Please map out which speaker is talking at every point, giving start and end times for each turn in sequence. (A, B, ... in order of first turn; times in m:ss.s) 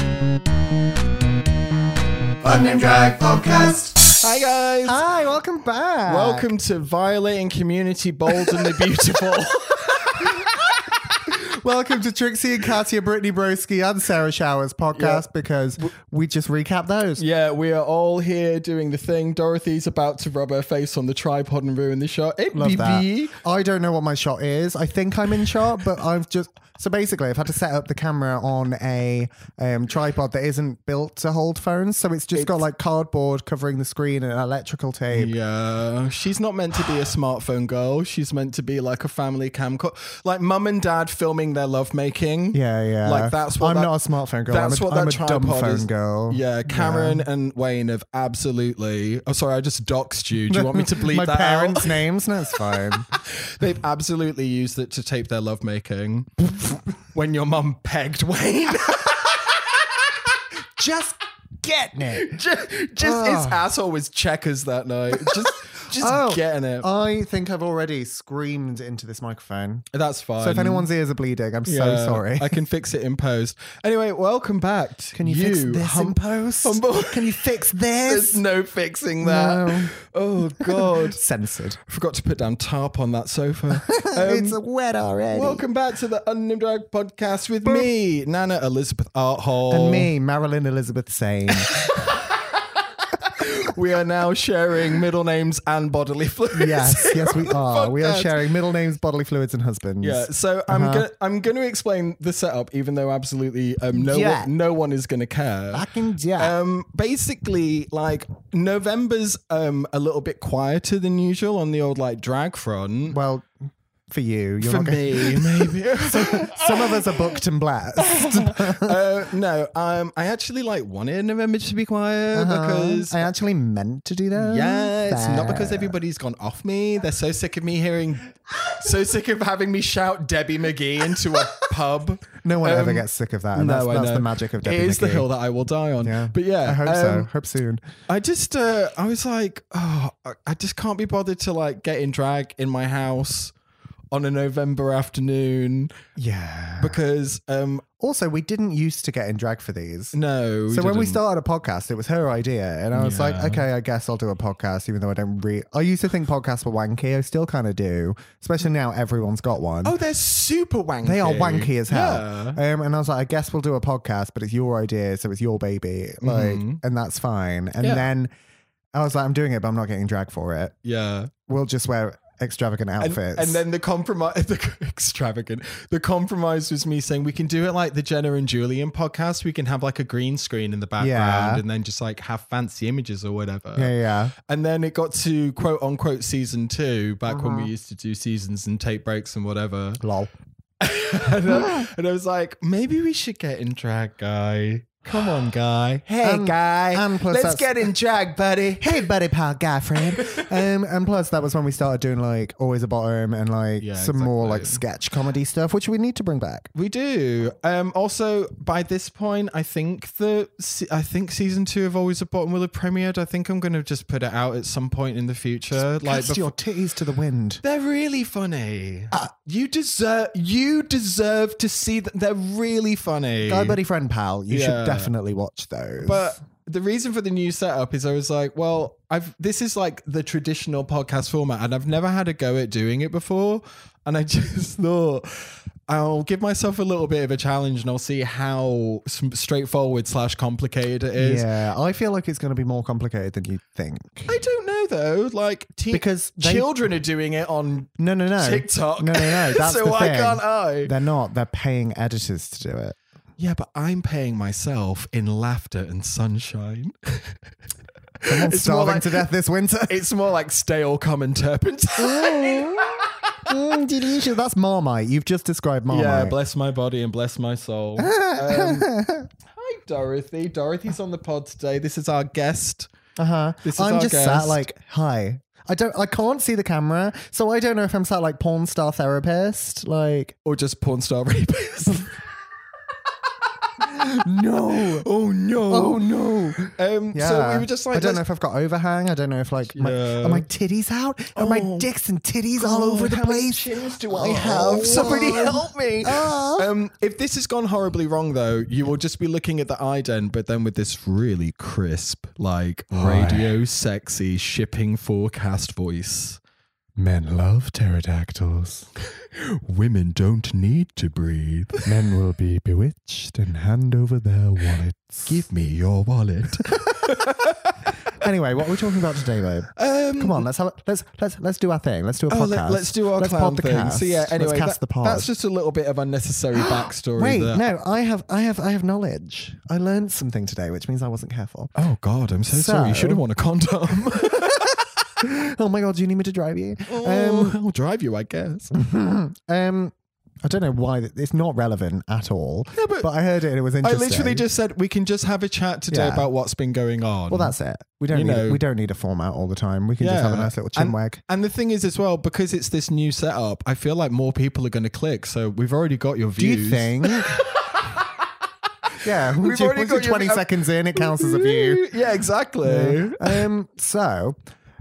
0:02.4-0:04.1 A
0:04.2-0:05.0 B
0:04.8-0:06.5 A
0:06.0-0:11.3 B
0:10.2-0:10.5 A
0:11.3-0:17.2 A
0:15.0-0:15.2 B
0:17.2-0:23.4 B
0:22.5-0:35.3 A
0:32.3-0:32.6 B
0:35.1-0:43.9 B
0:42.5-0:47.2 A
0:44.5-0:56.3 B
0:50.5-0:53.1 A
0:56.5-0:56.8 A
0:57.1-1:00.4 B
1:00.8-1:02.4 A
1:02.1-1:06.9 B
1:03.0-1:03.6 A
1:05.1-1:09.8 A
1:09.9-1:10.9 B
1:10.4-1:12.6 A
1:11.6-1:21.2 B
1:15.1-1:18.4 A
1:19.2-1:19.9 A
1:20.6-1:21.8 A
1:21.9-1:24.6 B
1:23.7-1:25.6 A
1:25.3-1:30.1 B
1:29.7-1:32.1 A
1:31.5-1:38.4 B
1:36.5-1:41.0 A
1:40.0-1:53.2 B
1:43.9-1:44.5 A
1:45.7-1:46.5 A
1:53.1-1:53.5 A
1:54.1-1:59.0 A
1:54.6-1:57.4 B
1:58.0-2:03.3 B
2:02.3-2:05.9 A
2:04.3-2:17.3 B
2:12.4-2:15.3 A
2:16.0-2:17.8 A
2:18.1-2:23.5 B
2:24.1-2:25.9 B
2:26.2-2:27.0 A
2:26.8-2:27.8 B
2:28.0-2:30.1 A
2:30.1-2:31.2 B
2:30.7-2:39.9 A
2:32.9-2:33.6 B
2:39.8-2:42.6 B
2:41.0-2:48.3 A
2:46.2-2:46.8 B
2:47.8-2:48.1 B
2:48.9-2:50.7 A
2:50.8-2:51.3 B
2:51.5-2:53.6 A
2:53.0-3:10.0 B
3:01.0-3:01.6 A
3:03.8-3:04.3 A
3:07.3-3:07.7 A
3:10.0-3:10.3 A
3:10.8-3:19.1 B
3:11.5-3:11.9 A
3:15.1-3:15.4 A
3:16.2-3:17.9 A
3:18.8-3:26.7 A
3:20.0-3:20.5 B
3:23.8-3:24.8 B
3:26.7-3:36.5 B
3:35.9-3:37.6 A
3:37.6-3:43.8 B
3:43.4-3:46.4 A
3:44.5-3:45.1 B
3:46.0-4:01.5 B
4:01.2-4:04.3 A
4:04.3-4:10.9 B
4:05.9-4:06.7 A
4:08.0-4:13.0 A
4:13.4-4:17.5 B
4:18.2-4:19.2 B
4:18.3-4:20.0 A
4:19.9-4:23.5 B
4:22.0-4:26.4 A
4:25.9-4:28.9 B
4:28.0-4:29.3 A
4:29.5-4:32.9 B
4:33.2-4:40.4 A
4:33.6-4:34.6 B
4:40.4-4:42.2 B
4:43.2-4:43.9 B
4:43.8-4:45.0 A
4:44.7-4:48.2 B
4:45.7-4:56.7 A
4:49.7-4:50.5 B
4:51.3-4:51.9 B
4:52.6-5:06.4 B
5:02.9-5:03.6 A
5:07.0-5:08.9 A
5:09.2-5:11.9 B
5:11.8-5:15.4 A
5:15.2-5:17.9 B
5:16.6-5:17.3 A
5:18.1-5:25.3 A
5:19.7-5:20.4 B
5:22.3-5:27.6 B
5:26.6-5:31.7 A
5:31.8-5:34.8 B
5:32.5-5:33.2 A
5:34.1-5:37.6 A
5:36.9-5:38.7 B
5:38.7-5:44.4 A
5:42.7-5:43.1 B
5:43.8-5:47.5 B
5:45.9-5:46.3 A
5:47.3-5:51.2 A
5:48.1-5:48.6 B
5:50.0-5:58.3 B
5:56.4-5:57.3 A
5:58.8-6:03.5 B
5:59.0-6:01.9 A
6:02.6-6:04.4 A